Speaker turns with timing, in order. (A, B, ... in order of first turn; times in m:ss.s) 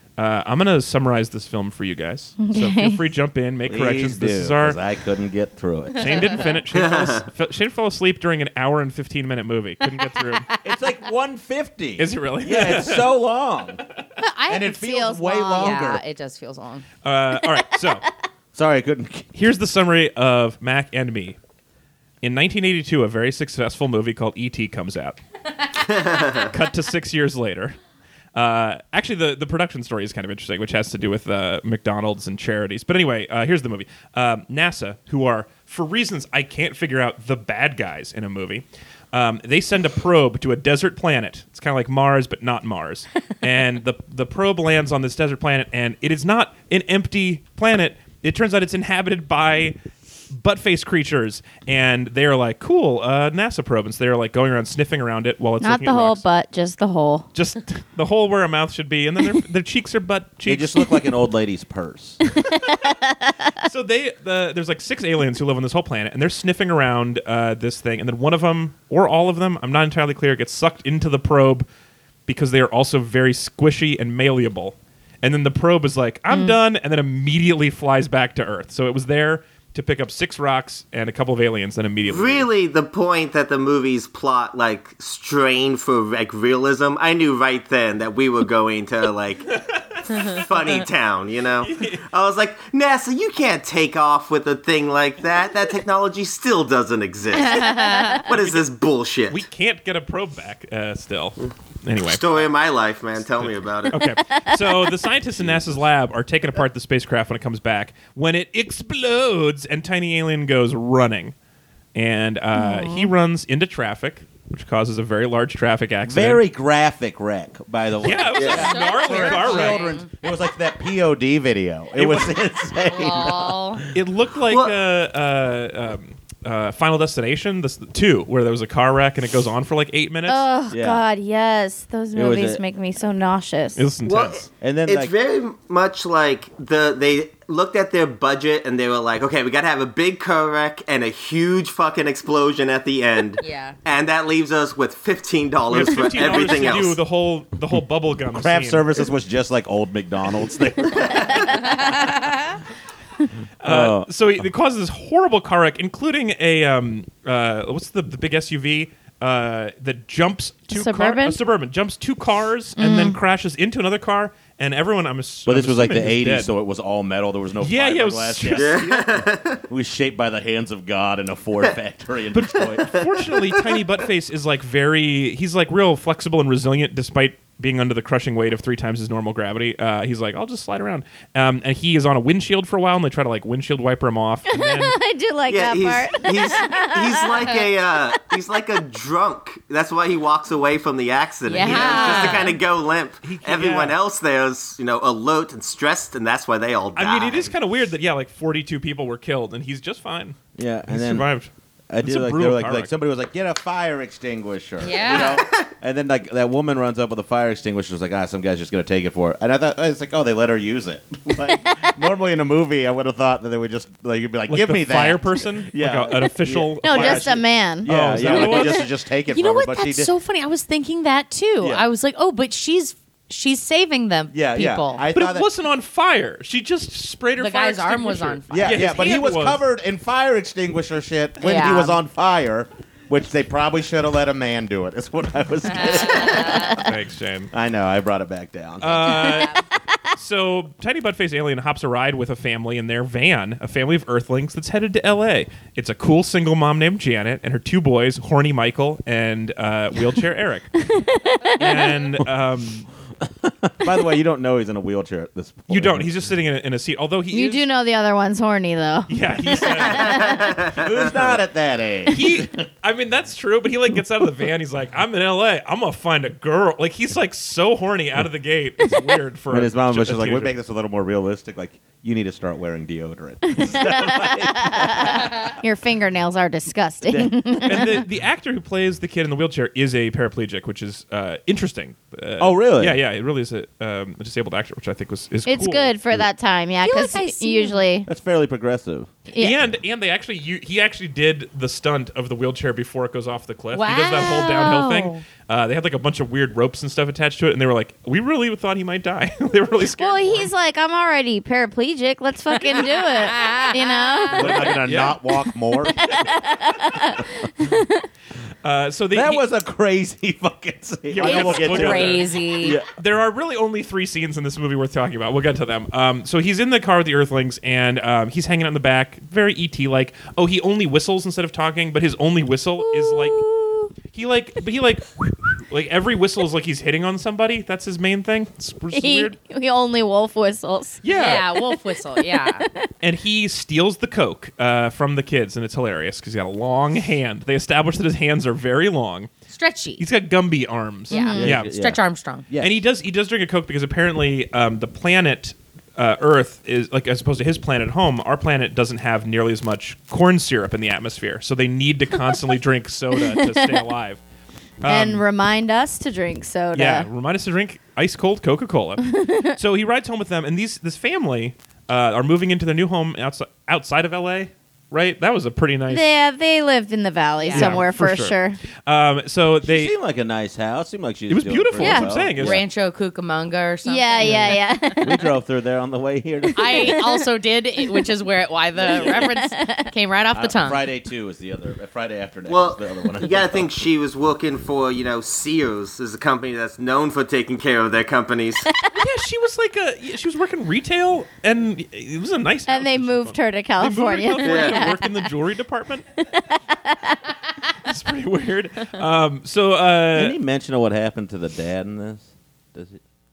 0:00.2-0:04.8 A
0:02.4-0:03.0 B
0:03.7-0:06.1 C
0:06.0-0:10.5 A
0:06.0-0:06.4 D
0:06.7-0:07.3 E
0:10.6-0:13.8 C
0:12.0-0:13.2 A
0:14.2-0:14.8 D
0:14.5-0:16.0 C
0:14.6-0:15.8 B
0:15.5-0:16.8 D
0:17.0-0:18.1 A
0:18.6-0:19.3 C
0:19.3-0:21.4 A
0:22.2-0:25.2 A
0:25.9-0:26.5 E
0:26.4-0:27.8 A
0:28.4-0:49.8 A
0:50.3-0:56.2 A
0:55.6-0:57.3 B
0:57.4-1:00.8 A
1:00.4-1:02.2 C
1:02.3-1:03.5 B
1:03.6-1:11.7 A
1:12.3-1:22.5 A
1:16.3-1:16.6 B
1:22.1-1:29.6 E
1:29.6-1:30.4 A
1:30.2-1:39.4 E
1:31.6-1:32.0 A
1:37.6-1:38.2 D
1:37.8-1:38.2 B
1:38.3-1:38.7 A
1:39.3-1:42.5 A
1:42.0-1:44.1 E
1:43.2-1:51.3 A
1:44.0-1:45.0 B
1:45.4-1:45.8 C
1:52.0-1:56.4 A
1:52.6-1:53.1 B
1:56.1-2:03.9 C
1:58.0-1:59.9 A
1:58.3-2:00.1 D
1:58.4-1:58.7 E
2:02.0-2:02.6 A
2:02.8-2:03.8 D
2:03.9-2:10.4 A
2:04.5-2:04.8 E
2:10.3-2:13.8 B
2:10.7-2:11.0 C
2:12.2-2:12.6 C
2:13.8-2:14.5 A
2:14.0-2:27.0 E
2:14.6-2:15.1 C
2:23.4-2:23.8 D
2:25.7-2:29.0 A
2:28.3-2:31.8 C
2:31.5-2:32.6 D
2:33.6-2:46.5 A
2:33.6-2:34.1 C
2:40.7-2:41.4 B
2:42.8-2:43.2 B
2:45.5-2:53.0 C
2:47.6-2:49.1 A
2:48.6-2:49.6 E
2:52.3-3:05.0 A
2:52.8-2:53.7 E
3:04.5-3:08.4 B
3:05.5-3:17.5 E
3:11.5-3:12.6 D
3:11.5-3:12.6 A
3:13.2-3:14.0 A
3:17.0-3:22.9 A
3:20.6-3:21.3 C
3:21.9-3:40.1 C
3:24.8-3:25.4 D
3:25.3-3:25.7 E
3:31.5-3:31.9 B
3:34.5-3:38.8 A
3:36.8-3:38.8 B
3:39.3-3:45.0 D
3:41.6-3:41.9 C
3:44.3-3:45.5 C
3:45.1-3:49.6 A
3:47.4-3:48.9 D
3:48.5-3:56.9 C
3:51.4-3:52.0 D
3:55.7-3:56.8 D
3:56.8-3:57.5 A
3:57.5-3:59.3 C
3:58.8-3:59.6 A
3:59.2-3:59.6 D
4:00.1-4:10.8 A
4:10.9-4:12.0 B
4:11.6-4:12.9 A
4:13.4-4:16.1 C
4:15.7-4:17.6 A
4:17.3-4:20.6 B
4:19.1-4:20.3 A
4:19.8-4:21.4 E
4:20.8-4:22.6 C
4:22.1-4:30.6 A
4:29.5-4:35.4 C
4:33.4-4:38.0 B
4:37.1-4:37.8 C
4:37.6-4:45.9 A
4:42.4-4:43.0 C
4:45.5-4:48.1 B
4:46.8-4:47.9 D
4:48.1-4:49.1 C
4:49.3-4:49.6 B
4:49.4-5:00.5 A
4:53.7-4:55.2 D
4:54.2-4:55.1 B
5:00.0-5:04.7 B
5:02.6-5:04.6 D
5:04.3-5:06.1 C
5:04.4-5:05.2 A
5:05.8-5:08.0 B
5:08.6-5:09.5 A
5:09.1-5:12.9 C
5:11.1-5:23.4 A
5:11.2-5:12.8 D
5:22.8-5:23.9 B
5:24.1-5:29.4 A
5:28.9-5:32.9 B
5:31.0-5:31.5 A
5:31.1-5:32.7 D
5:33.0-5:39.3 A
5:39.5-5:40.0 D
5:40.0-5:41.7 A
5:41.1-5:42.5 D
5:41.1-5:41.4 B
5:41.4-5:42.8 C
5:42.6-5:54.2 A
5:53.2-5:53.8 B
5:54.8-5:55.2 A
5:54.8-5:57.1 B
5:56.7-6:06.1 A
5:59.0-5:59.6 B
6:05.9-6:08.6 B
6:07.4-6:07.8 D
6:07.6-6:09.9 A
6:09.6-6:12.6 C
6:11.3-6:12.6 A
6:11.8-6:12.1 B
6:12.4-6:15.0 D
6:13.8-6:15.2 B
6:14.2-6:17.0 C
6:16.5-6:17.3 B
6:16.6-6:20.8 D
6:17.8-6:18.1 B
6:18.8-6:19.2 C
6:18.9-6:19.9 B
6:20.3-6:23.9 C
6:22.5-6:28.7 E
6:28.6-6:29.0 B
6:28.9-6:36.1 A
6:32.7-6:35.3 B
6:34.4-6:34.9 E
6:36.2-6:37.2 B
6:37.9-6:40.4 A
6:40.1-6:43.0 C